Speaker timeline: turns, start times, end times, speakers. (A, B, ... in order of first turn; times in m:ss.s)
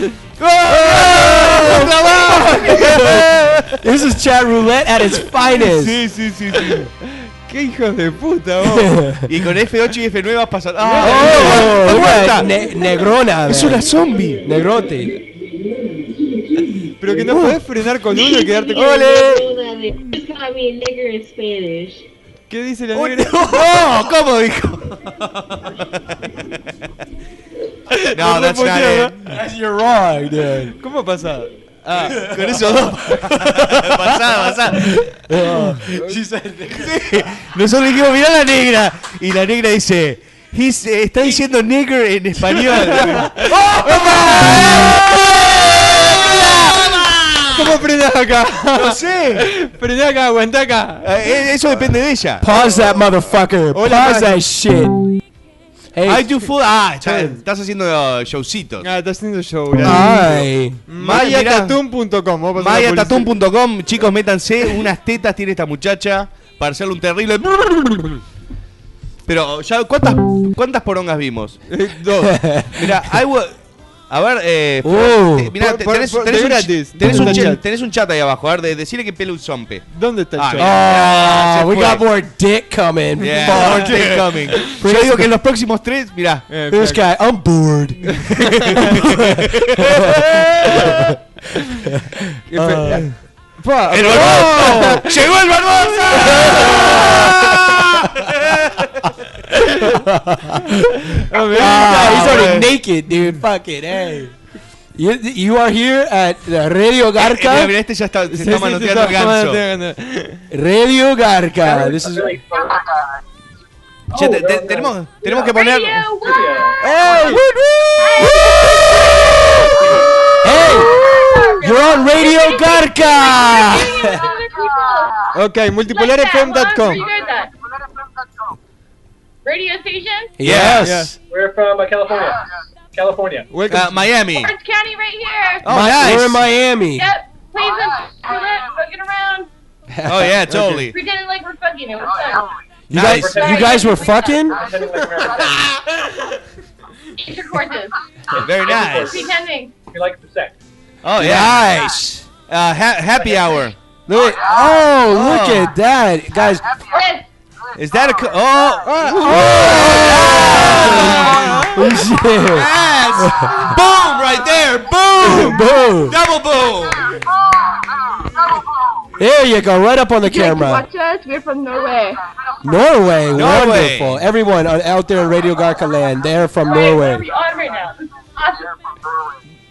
0:00.4-0:03.8 A
0:01.3-0:01.9 B
0:01.7-0:03.2 C
0:02.6-0:03.2 B
0:03.8-0:06.0 B
0:05.4-0:06.9 A
0:06.6-0:06.9 C
0:07.5-0:09.1 C
0:08.6-0:09.3 B
0:09.2-0:12.7 A
0:10.8-0:11.9 C
0:11.0-0:15.2 B
0:13.4-0:14.5 A
0:17.0-0:19.4 C
0:17.0-0:17.6 A
0:18.7-0:19.5 A
0:20.2-0:21.7 D
0:22.5-0:23.8 C
0:22.9-0:26.6 A
0:28.0-0:29.2 C
0:28.1-0:29.2 A
0:29.2-0:30.7 B
0:30.8-0:32.1 C
0:31.9-0:35.8 A
0:32.1-0:36.9 B
0:36.7-0:47.8 A
0:42.9-0:43.4 C
0:43.9-0:44.7 B
0:43.9-0:44.8 C
0:47.5-0:51.1 C
0:48.7-0:49.5 A
0:51.0-0:52.6 A
0:52.4-0:55.0 B
0:53.7-0:54.4 C
0:55.9-0:56.3 B
0:56.0-0:58.9 A
0:57.0-0:57.3 B
0:58.8-1:03.4 C
0:59.8-1:00.8 B
1:01.0-1:01.8 A
1:02.6-1:08.2 A
1:09.2-1:11.6 A
1:11.7-1:12.4 C
1:12.3-1:12.8 B
1:12.7-1:13.6 A
1:14.1-1:22.1 A
1:14.8-1:15.5 B
1:15.6-1:17.6 C
1:17.0-1:17.5 B
1:19.9-1:20.7 C
1:20.6-1:25.3 B
1:23.2-1:26.4 A
1:23.3-1:24.1 C
1:26.5-1:27.0 C
1:26.7-1:28.2 B
1:28.1-1:29.0 C
1:28.6-1:31.0 A
1:28.7-1:30.2 B
1:30.7-1:31.0 B
1:32.5-1:35.1 C
1:32.6-1:33.0 B
1:32.8-1:33.1 A
1:33.9-1:39.1 A
1:34.5-1:34.9 B
1:36.5-1:37.4 B
1:39.8-1:44.3 B
1:41.2-1:42.6 C
1:41.6-1:42.7 A
1:44.9-1:47.7 B
1:47.2-1:49.6 A
1:48.3-1:50.4 C
1:50.5-1:52.4 B
1:51.6-1:52.7 E
1:54.1-1:56.1 A
1:54.1-1:55.5 E
1:55.4-1:56.6 D
1:56.2-1:56.8 E
1:56.8-1:57.4 C
1:57.0-1:59.0 B
1:58.0-2:05.2 D
2:00.4-2:01.0 B
2:01.6-2:04.2 B
2:05.3-2:07.0 C
2:05.9-2:07.5 D
2:09.4-2:10.3 D
2:10.4-2:11.1 B
2:10.4-2:11.1 A
2:10.8-2:11.1 C
2:11.3-2:13.5 E
2:13.5-2:14.1 C
2:13.7-2:14.5 A
2:14.3-2:15.7 D
2:15.6-2:16.5 A
2:15.6-2:17.1 B
2:16.9-2:19.5 D
2:19.9-2:20.6 B
2:20.0-2:21.0 A
2:20.9-2:22.5 D
2:22.9-2:23.5 A
2:22.9-2:24.6 B
2:23.0-2:25.6 E
2:23.3-2:24.4 D
2:27.2-2:28.0 D
2:28.3-2:30.6 E
2:28.4-2:29.2 A
2:29.1-2:29.8 D
2:31.0-2:31.7 A
2:31.2-2:32.2 B
2:32.5-2:33.7 A
2:34.1-2:36.6 B
2:35.1-2:35.7 A
2:36.9-2:37.2 D
2:37.8-2:41.9 A
2:39.0-2:43.7 B
2:40.7-2:41.7 C
2:42.5-2:47.2 A
2:45.2-2:46.2 B
2:49.2-2:50.8 B
2:50.2-2:52.2 D
2:52.6-2:57.2 B
2:53.3-2:54.2 A
2:56.6-2:58.7 D